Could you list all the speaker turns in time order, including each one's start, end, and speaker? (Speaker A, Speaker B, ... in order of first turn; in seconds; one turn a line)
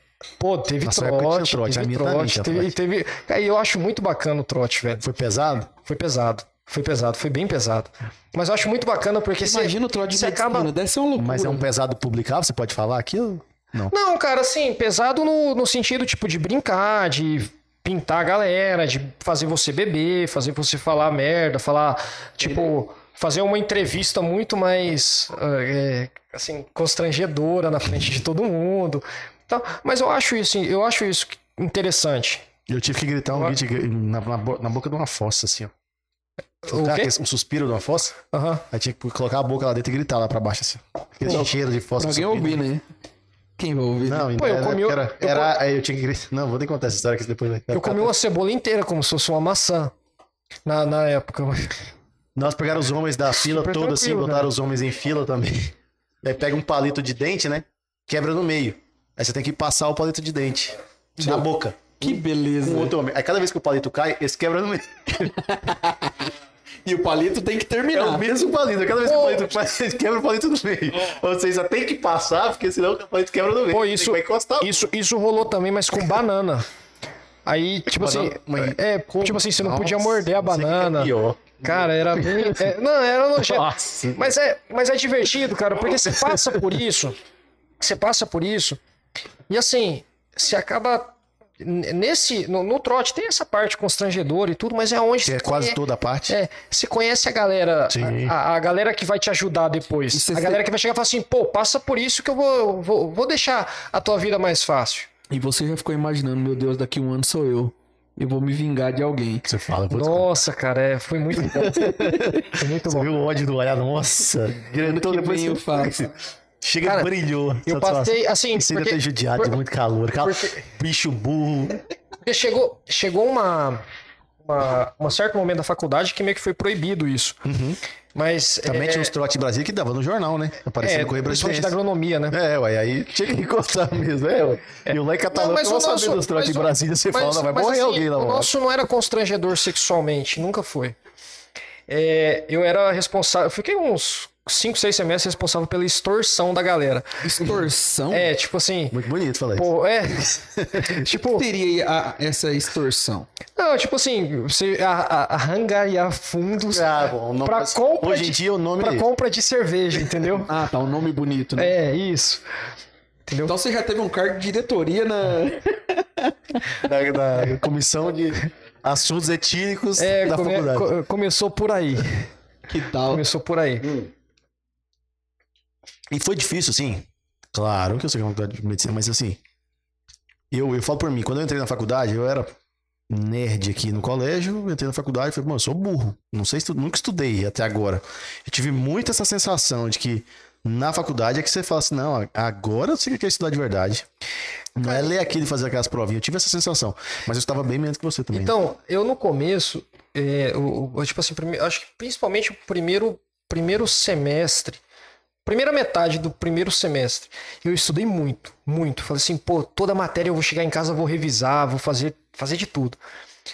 Speaker A: 0.4-5.0
Speaker B: 0.8-2.7
Speaker B: 5.0-5.7
Speaker A: 5.8-10.7
Speaker C: 9.4-11.6
Speaker B: 11.2-13.9
Speaker A: 13.9-32.5
Speaker B: 32.7-35.7
Speaker A: 36.6-37.1
Speaker B: 36.7-38.2
Speaker A: 38.3-38.6
Speaker B: 38.7-42.6
Speaker C: 41.2-42.8
Speaker C: 43.6-44.3
Speaker B: 44.0-48.1
Speaker A: 44.3-45.5
Speaker A: 47.7-49.9
Speaker A: 50.6-51.8
Speaker B: 52.4-65.3
Speaker A: 53.3-54.5
Speaker C: 61.2-61.5
Speaker C: 62.0-63.0
Speaker C: 65.3-66.3
Speaker C: 66.8-68.2
Speaker B: 67.9-74.9
Speaker A: 69.0-69.5
Speaker A: 73.7-76.7
Speaker A: 77.5-87.2
Speaker B: 77.9-82.7
Speaker B: 83.4-84.3
Speaker B: 86.0-86.4
Speaker A: 87.8-88.8
Speaker A: 89.5-105.1
Speaker B: 95.2-96.3
Speaker B: 97.9-98.3
Speaker C: 100.1-100.6
Speaker C: 105.3-109.5
Speaker B: 109.5-110.5
Speaker A: 109.9-113.1
Speaker B: 111.4-121.8
Speaker C: 114.7-116.0
Speaker A: 116.8-117.1
Speaker A: 117.6-119.5
Speaker A: 120.2-120.6
Speaker A: 122.2-123.8
Speaker A: 124.4-127.4
Speaker B: 127.4-127.8
Speaker A: 128.1-129.1
Speaker B: 128.6-131.8
Speaker A: 130.8-132.4
Speaker B: 132.3-138.5
Speaker A: 134.8-140.9
Speaker A: 141.9-147.2
Speaker C: 147.2-148.3
Speaker A: 148.1-149.0
Speaker B: 148.9-149.7
Speaker A: 149.6-151.4
Speaker B: 150.6-150.9
Speaker C: 151.1-153.3
Speaker A: 153.6-156.9
Speaker B: 156.7-159.1
Speaker A: 157.4-160.5
Speaker C: 160.4-161.7
Speaker A: 161.6-162.4
Speaker A: 163.3-163.5
Speaker C: 163.4-166.3
Speaker B: 166.8-170.9
Speaker A: 170.0-172.3
Speaker C: 172.7-173.2
Speaker A: 173.1-173.9
Speaker B: 173.8-174.1
Speaker B: 176.1-179.4
Speaker B: 180.5-182.5
Speaker B: 183.1-194.1
Speaker B: 194.8-198.5
Speaker A: 194.8-195.1
Speaker A: 198.3-204.8
Speaker A: 205.4-213.0